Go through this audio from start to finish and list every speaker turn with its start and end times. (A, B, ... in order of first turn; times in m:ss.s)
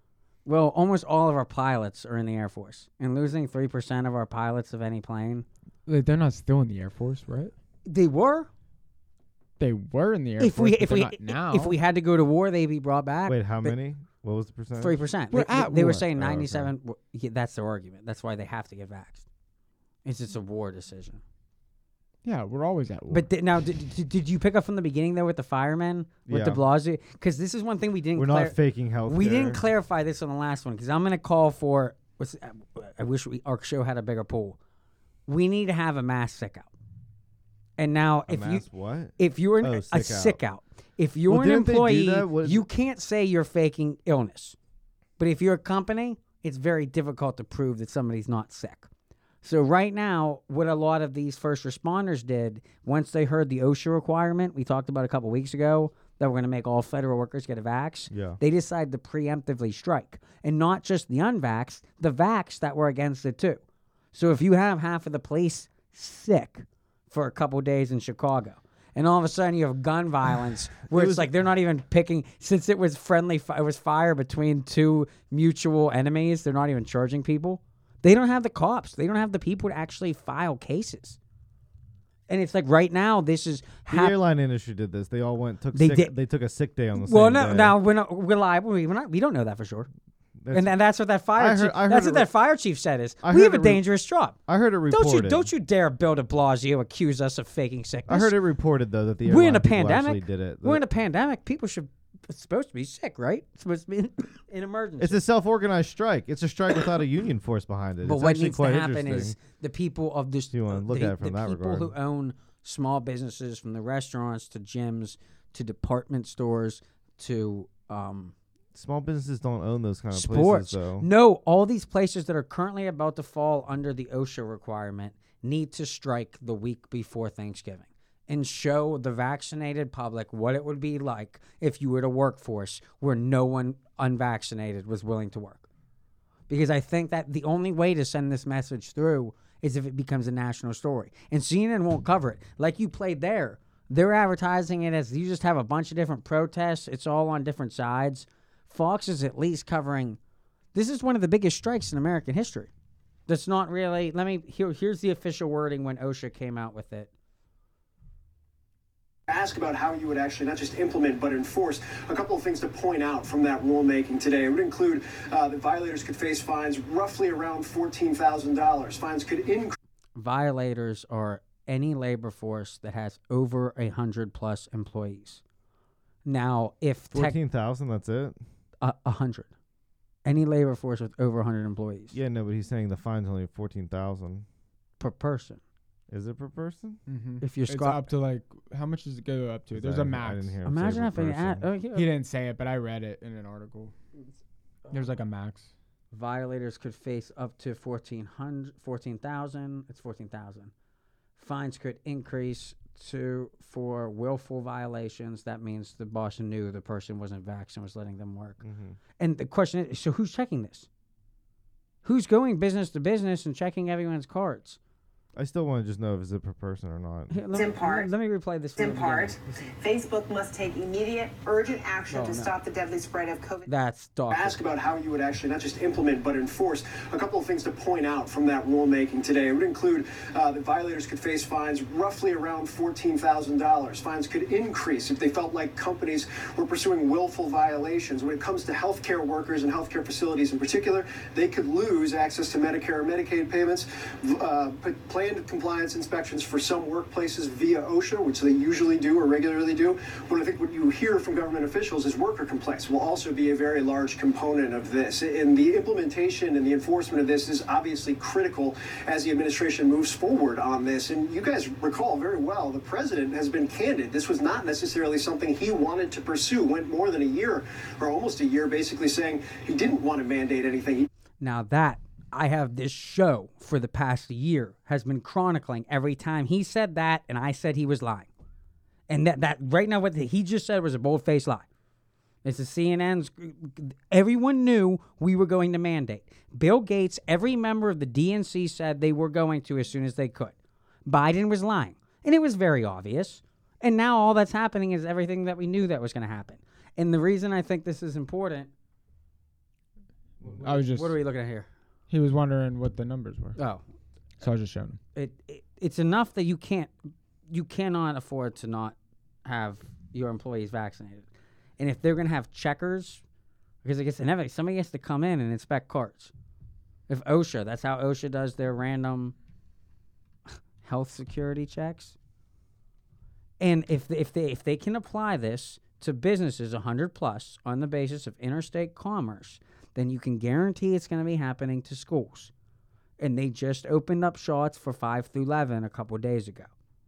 0:00.5-0:05.5 A
0:05.9-0:07.5 B
0:07.9-0:08.5 A
0:09.6-0:11.8 B
0:10.4-0:13.8 A
0:13.3-0:15.0 C
0:14.8-0:19.2 A
0:15.3-0:16.1 B
0:16.1-0:16.7 C
0:20.0-0:21.2 A
0:22.2-0:23.3 B
0:23.1-0:34.6 A
0:26.3-0:26.6 C
0:28.1-0:29.7 C
0:35.3-0:36.7 A
0:37.8-0:38.6 A
0:38.3-0:40.4 C
0:39.2-0:44.6 A
0:41.3-0:42.7 C
0:45.2-0:48.9 A
0:49.4-1:03.6 A
0:58.1-0:58.4 C
1:04.1-1:21.2 A
1:10.9-1:11.3 C
1:22.3-1:24.2 A
1:23.9-1:27.8 C
1:25.7-1:26.1 A
1:27.0-1:29.9 A
1:30.4-1:30.8 C
1:30.5-1:34.4 A
1:31.4-1:32.3 C
1:33.2-1:33.8 C
1:34.5-1:35.5 C
1:34.9-1:38.3 A
1:38.1-1:40.8 C
1:39.2-1:45.2 A
1:45.0-1:49.4 C
1:48.0-1:58.3 A
1:50.5-1:51.9 C
1:58.7-2:01.1 C
2:00.1-2:15.6 A
2:16.5-2:30.2 A
2:30.7-2:32.7 A
2:33.3-2:37.1 A
2:39.3-2:49.8 D
2:50.2-2:55.4 A
2:56.3-2:57.4 A
2:57.1-2:58.4 C
2:58.8-2:59.5 A
3:00.2-3:02.2 A
3:02.1-3:04.5 C
3:05.0-3:05.6 A
3:06.1-3:07.0 C
3:07.1-3:10.6 B
3:07.4-3:08.1 A
3:09.7-3:11.7 C
3:10.6-3:12.1 A
3:11.9-3:13.9 B
3:14.9-3:15.7 B
3:16.1-3:20.7 A
3:21.4-3:28.6 A
3:28.6-3:29.0 C
3:29.2-3:30.9 A
3:32.0-3:34.8 A
3:35.4-3:37.4 C
3:37.3-3:39.6 A
3:37.5-3:38.1 E
3:38.8-3:43.7 E
3:42.1-3:42.6 A
3:43.7-3:44.6 A
3:44.3-4:31.1 D
4:31.4-4:38.3 A
4:39.1-4:41.7 A
4:42.4-4:50.5 A
4:51.1-4:58.7 A
5:00.6-5:01.7 A
5:00.6-5:01.1 B
5:02.1-5:03.6 B
5:03.6-5:03.8 A
5:04.4-5:05.0 B
5:05.2-5:06.9 A
5:07.5-5:11.2 A
5:11.8-5:13.2 A
5:13.8-5:16.3 A
5:17.1-5:19.4 A
5:20.8-5:22.2 A
5:23.6-5:32.5 A
5:33.2-5:36.7 A